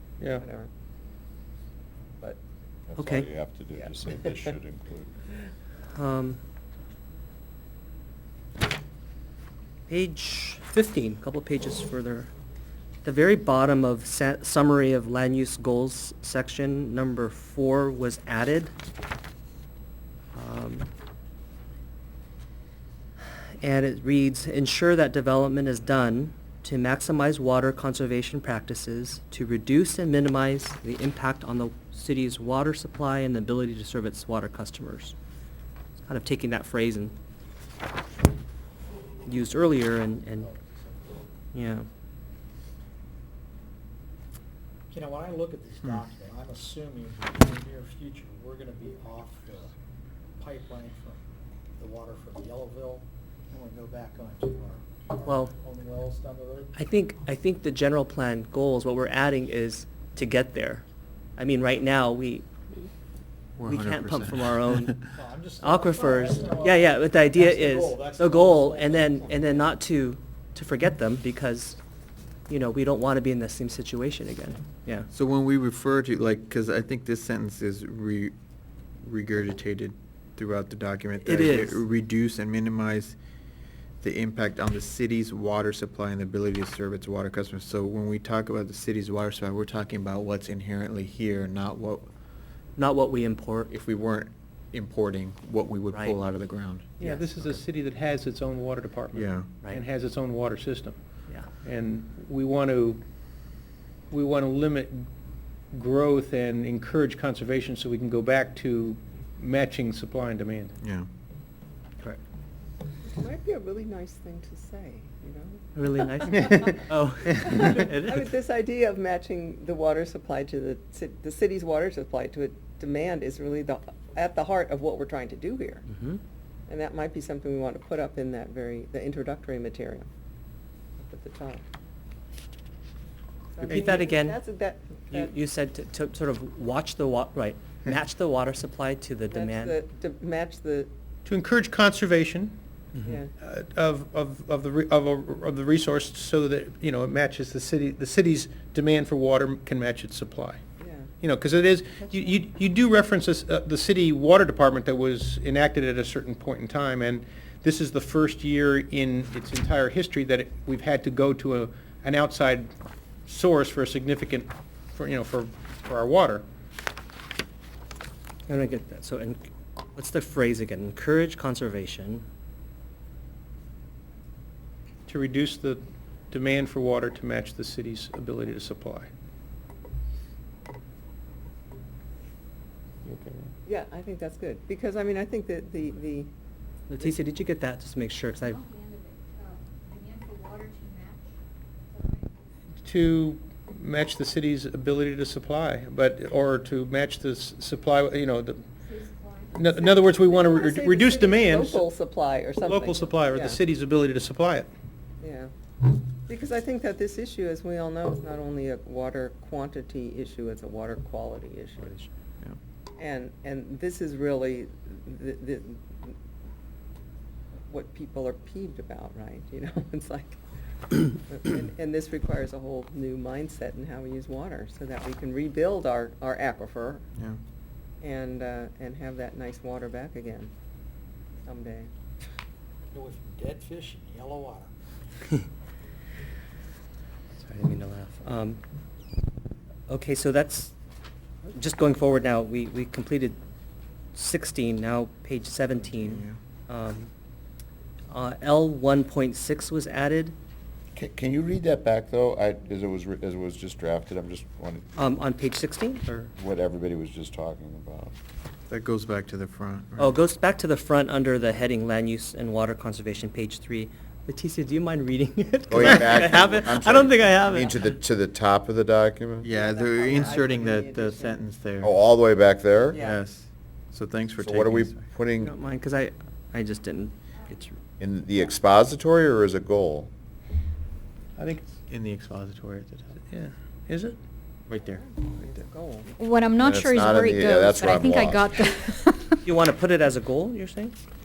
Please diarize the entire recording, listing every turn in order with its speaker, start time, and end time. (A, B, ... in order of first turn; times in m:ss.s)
0:00.4-0:00.7 A
0:02.9-0:05.1 B
0:03.0-0:03.3 C
0:03.7-0:04.5 A
0:05.9-0:06.4 C
0:09.9-0:12.3 C
0:13.0-0:18.7 C
0:20.3-0:20.9 C
0:23.6-0:35.1 C
0:36.1-0:37.1 C
0:39.2-0:40.5 C
0:41.5-0:41.9 C
0:44.9-0:49.7 D
0:50.4-0:51.2 D
0:51.8-0:56.7 D
0:55.2-0:55.5 C
0:56.8-1:00.8 C
1:01.4-1:02.9 C
1:03.6-1:05.0 E
1:03.6-1:11.8 C
1:05.1-1:09.7 D
1:12.5-1:15.1 C
1:15.1-1:18.3 E
1:19.0-1:23.2 E
1:21.2-1:21.8 C
1:24.0-1:32.1 E
1:32.8-1:33.7 C
1:33.7-1:36.9 E
1:35.9-1:36.2 C
1:37.0-1:41.0 F
1:37.0-1:37.5 C
1:39.1-1:39.5 E
1:41.6-1:43.0 F
1:44.1-1:45.1 F
1:45.7-1:50.7 F
1:50.8-1:51.1 E
1:53.0-1:56.8 A
1:55.7-1:58.3 C
1:56.3-1:56.8 F
1:57.4-2:05.8 A
1:57.4-1:57.8 F
2:05.9-2:06.2 C
2:06.7-2:10.1 A
2:11.0-2:11.6 A
2:13.5-2:15.3 A
2:13.6-2:14.4 C
2:15.1-2:19.8 C
2:19.3-2:20.9 A
2:21.2-2:22.6 F
2:23.0-2:23.3 A
2:23.4-2:30.6 F
2:30.8-2:31.1 A
2:31.2-2:42.7 F
2:43.2-2:46.4 F
2:48.5-2:52.2 C
2:55.1-2:59.1 F
3:03.0-3:03.4 F
3:03.6-3:06.3 A
3:06.9-3:08.6 C
3:08.5-3:11.3 G
3:11.9-3:12.3 G
3:12.8-3:18.7 F
3:18.8-3:19.5 G
3:19.5-3:21.9 F
3:19.7-3:23.6 A
3:22.6-3:24.7 F
3:25.2-3:25.5 A
3:26.3-3:31.9 A
3:33.0-3:36.1 A
3:37.7-3:40.4 A
3:41.0-3:47.0 A
3:48.0-3:50.5 A
3:51.4-3:51.9 A
3:52.9-3:54.7 D
3:57.4-3:58.6 C
3:59.9-4:00.7 C
4:01.5-4:03.4 C
4:04.1-4:07.1 C
4:05.9-4:06.4 E
4:08.1-4:10.3 C
4:10.9-4:14.9 B
4:15.0-4:16.0 C
4:16.3-4:18.1 B
4:18.7-4:20.2 E
4:20.0-4:27.8 C
4:25.7-4:29.5 B
4:29.4-4:31.9 E
4:29.4-4:31.4 A
4:31.8-4:33.0 B
4:32.9-4:35.1 E
4:32.9-4:33.2 A
4:34.4-4:35.5 B
4:35.4-4:37.8 C
4:38.0-4:40.1 B
4:41.4-4:41.7 F
4:41.9-4:43.2 E
4:43.3-4:44.2 F
4:44.7-4:45.6 E
4:44.8-4:46.1 A
4:46.2-4:49.4 H
4:46.6-4:48.5 B
4:49.4-4:51.0 C